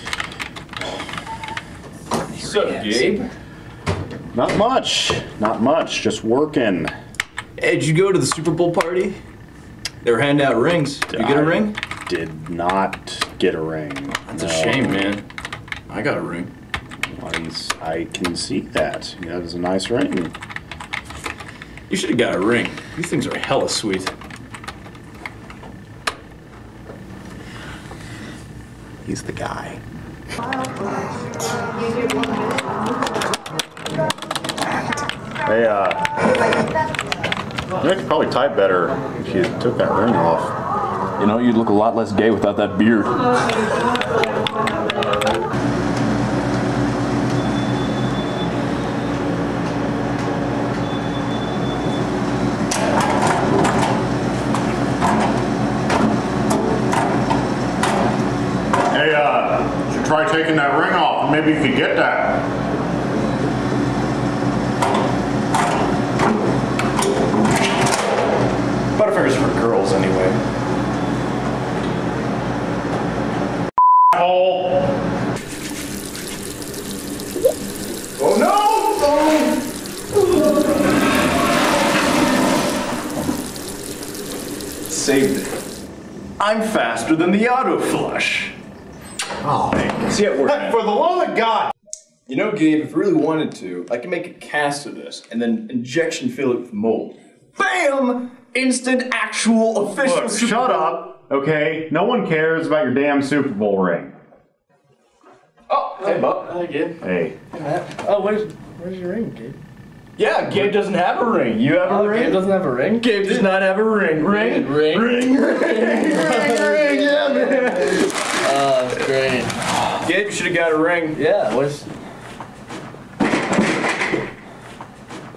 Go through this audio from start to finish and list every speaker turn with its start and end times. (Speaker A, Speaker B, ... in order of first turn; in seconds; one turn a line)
Speaker A: 2.3-3.3
Speaker B: 4.3-6.9
Speaker A: 7.6-9.2
Speaker A: 10.0-11.8
Speaker B: 11.1-15.1
Speaker A: 14.3-15.2
Speaker A: 15.9-16.5
Speaker B: 17.1-20.3
Speaker A: 21.9-24.1
Speaker B: 29.1-29.8
Speaker B: 35.5-36.1
Speaker B: 37.8-40.5
Speaker A: 41.2-43.2
Speaker B: 58.9-62.5
Speaker A: 69.0-70.4
Speaker B: 74.1-74.6
Speaker A: 78.2-79.6
Speaker A: 84.9-85.6
Speaker A: 86.4-88.5
Speaker B: 89.4-91.7
Speaker A: 90.0-90.8
Speaker A: 92.3-101.1
Speaker B: 100.0-104.1
Speaker A: 105.7-106.5
Speaker C: 106.0-107.0
Speaker B: 107.0-107.4
Speaker C: 107.5-109.6
Speaker A: 110.2-112.5
Speaker C: 111.8-113.4
Speaker A: 113.0-118.3
Speaker C: 114.2-119.5
Speaker A: 120.0-121.2
Speaker C: 121.2-121.8